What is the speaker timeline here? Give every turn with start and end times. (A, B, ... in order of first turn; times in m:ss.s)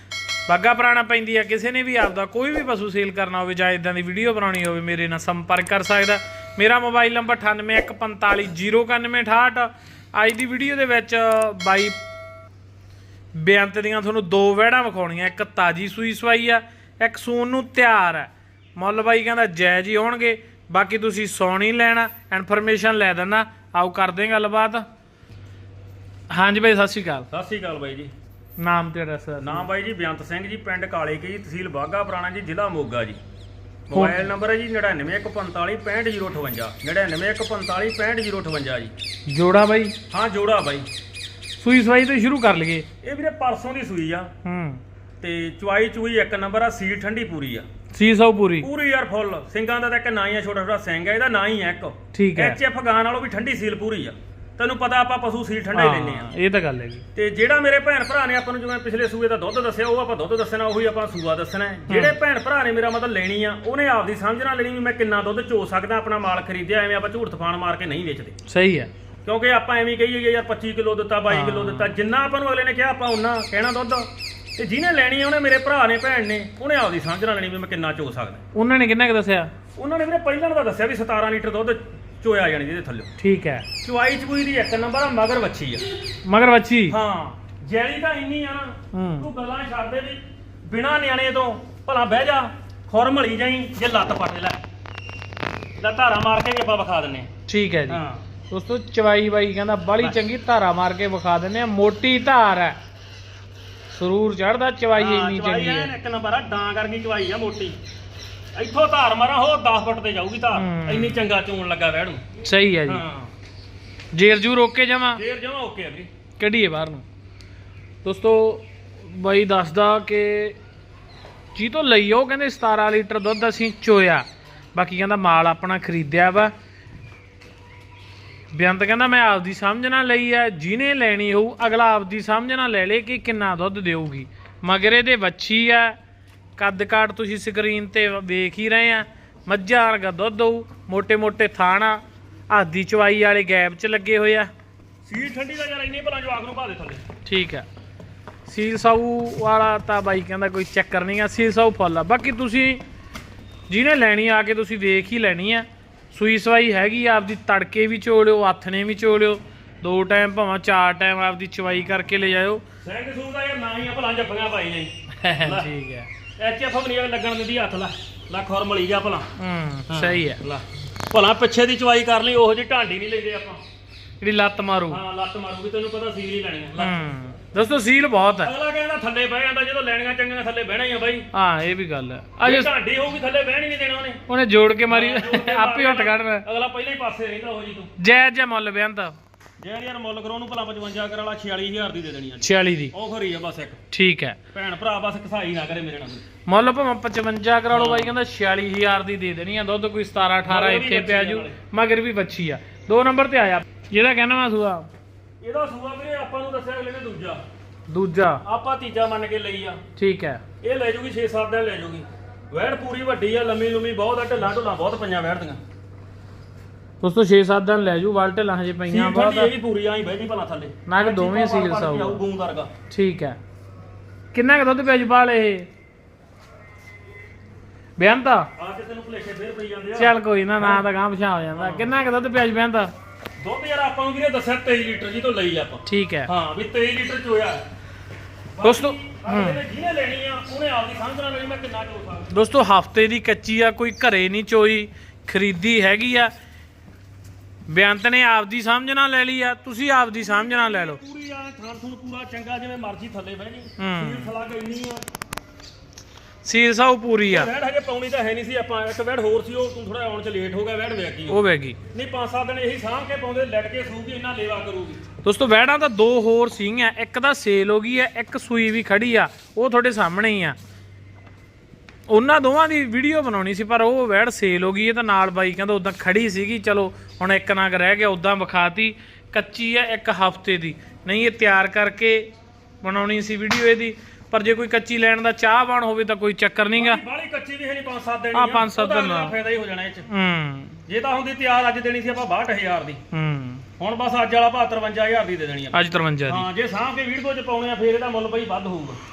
0:00.5-0:11.9 A
0:13.4-0:24.8 A
0:26.3-0:27.3 A
0:27.3-0:28.1 B
0:28.6-0:29.7 A
0:29.4-0:33.2 B
0:33.9-0:38.9 B
0:33.9-0:34.3 A
0:39.3-0:39.9 A
0:40.1-0:40.9 B
0:41.6-0:42.9 A
0:43.0-0:44.3 B
0:44.4-0:44.8 A
0:45.2-0:47.7 B
0:47.9-0:48.7 A
0:48.6-0:56.3 B
0:52.1-0:52.6 A
0:55.8-0:57.0 A
0:57.2-1:08.4 B
1:01.9-1:02.2 A
1:08.5-1:08.9 A
1:09.2-1:18.4 B
1:11.3-1:11.9 A
1:18.5-1:19.5 A
1:19.8-1:23.1 B
1:23.2-1:23.7 A
1:23.8-1:25.8 B
1:26.3-1:27.0 A
1:26.9-1:34.6 B
1:28.9-1:29.3 A
1:35.8-1:37.3 B
1:37.5-1:42.8 A
1:37.9-1:38.2 B
1:43.9-1:45.9 A
1:45.0-1:47.8 B
1:48.6-1:52.3 B
1:50.6-1:51.2 A
1:52.4-1:53.0 A
1:52.9-1:53.3 B
1:54.1-1:55.2 A
1:55.2-1:56.1 B
1:56.4-1:57.0 A
1:58.0-2:00.6 A
2:01.6-2:06.5 A
2:08.5-2:16.0 A
2:16.6-2:24.5 A
2:25.0-2:27.0 B
2:27.2-2:27.7 A
2:28.5-2:32.8 A
2:33.7-2:42.6 A
2:42.8-2:45.7 B
2:45.2-2:46.1 A
2:46.4-2:49.3 B
2:49.4-2:50.4 A
2:49.9-2:53.6 B
2:54.2-2:55.0 A
2:54.9-2:57.0 B
2:56.8-2:58.5 A
2:58.4-3:01.3 B
3:01.3-3:02.7 A
3:02.4-3:04.2 B
3:04.3-3:06.4 A
3:04.9-3:07.9 B
3:08.0-3:09.2 A
3:09.6-3:13.8 B
3:12.4-3:12.9 A
3:13.9-3:14.4 A
3:14.5-3:16.2 B
3:16.5-3:24.9 A
3:17.7-3:18.2 B
3:20.5-3:21.6 B
3:25.4-3:27.4 B
3:27.9-3:28.4 A
3:28.4-3:29.8 B
3:30.0-3:30.4 A
3:30.6-3:35.6 B
3:37.0-3:39.5 A
3:38.9-3:42.7 B
3:40.9-3:42.2 A
3:42.9-3:43.4 A
3:44.3-3:45.7 A
3:48.0-3:48.5 A
3:48.6-3:50.9 B
3:50.0-3:52.9 A
3:51.5-3:52.0 B
3:53.4-3:57.6 B
3:55.9-3:56.3 A
3:58.6-4:02.3 B
3:58.6-3:59.6 A
4:02.3-4:06.3 A
4:07.7-4:11.0 A
4:10.2-4:15.0 B
4:13.8-4:14.3 A
4:16.4-4:17.5 A
4:17.3-4:21.4 B
4:21.3-4:21.8 A
4:21.9-4:25.0 B
4:25.2-4:30.6 A
4:32.1-4:42.3 A
4:42.8-4:47.0 A
4:46.8-4:50.1 B
4:48.3-4:49.3 A
4:50.1-4:50.8 A
4:50.9-4:53.0 B
4:53.1-4:53.6 A
4:53.8-4:59.0 B
4:55.7-4:56.5 A